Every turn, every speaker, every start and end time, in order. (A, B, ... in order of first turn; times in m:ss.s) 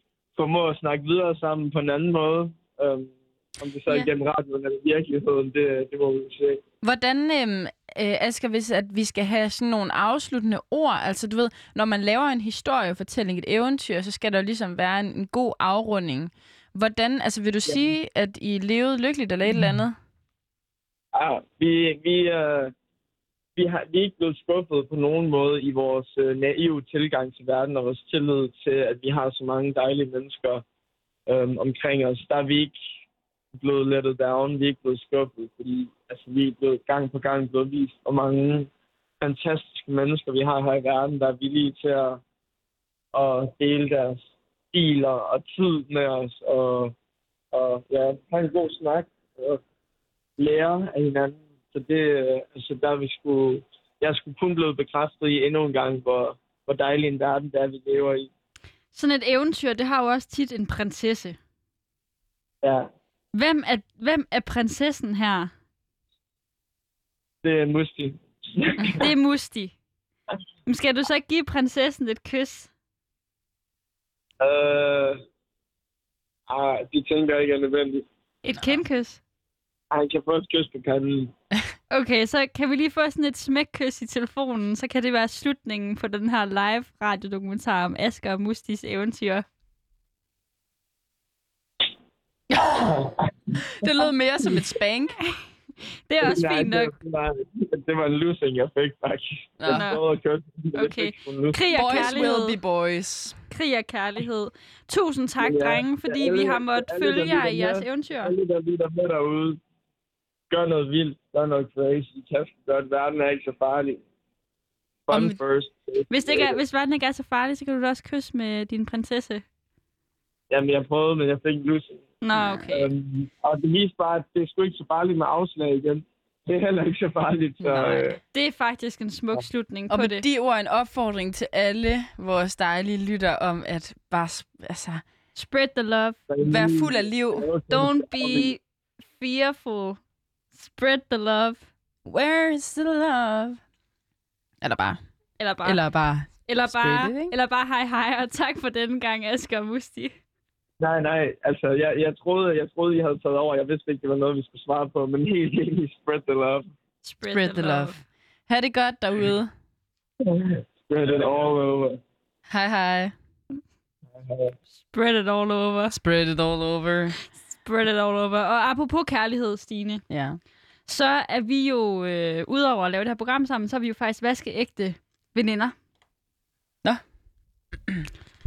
0:00.3-0:06.6 A
0:06.8-0:20.0 B
0:21.1-0:22.7 A
0:23.6-0:30.6 A
0:31.3-0:32.8 A
0:33.5-0:38.7 A
0:39.2-0:42.2 A
0:43.1-0:44.2 A
0:44.7-0:46.9 A
0:47.5-0:49.6 A
0:50.4-0:58.3 A
0:58.9-1:01.4 C
1:02.6-1:02.9 A
1:03.3-1:05.5 C
1:07.4-1:09.0 A
1:09.0-1:09.7 C
1:10.6-1:12.7 C
1:14.4-1:15.2 A
1:16.5-1:18.0 A
1:18.4-1:19.2 C
1:19.9-1:21.3 A
1:21.9-1:29.4 C
1:32.6-1:33.6 A
1:33.7-1:35.2 B
1:36.1-1:36.9 C
1:36.2-1:42.2 A
1:39.6-1:39.9 B
1:39.7-1:40.0 C
1:40.7-1:42.6 C
1:41.7-1:43.4 B
1:43.5-1:48.3 C
1:45.4-1:49.6 A
1:50.5-1:54.0 A
1:55.1-1:56.6 A
1:55.1-1:55.4 B
1:56.1-1:59.4 C
2:00.5-2:02.1 A
2:02.2-2:02.9 C
2:02.3-2:02.7 B
2:02.7-2:08.2 A
2:07.6-2:08.2 B
2:08.3-2:10.2 C
2:09.9-2:15.0 B
2:15.3-2:16.2 C
2:16.3-2:18.5 A
2:16.4-2:17.5 B
2:17.7-2:18.6 C
2:19.2-2:20.0 C
2:20.6-2:21.6 C
2:22.0-2:23.6 B
2:24.6-2:25.0 B
2:25.4-2:25.8 C
2:25.6-2:27.3 B
2:26.5-2:30.1 C
2:30.8-2:36.7 A
2:37.0-2:38.0 C
2:37.3-2:39.5 B
2:40.2-2:42.0 A
2:42.5-2:43.1 B
2:44.2-2:44.5 A
2:44.9-2:46.0 C
2:45.9-2:47.2 B
2:47.6-2:50.0 C
2:50.1-2:50.4 B
2:50.9-2:55.7 C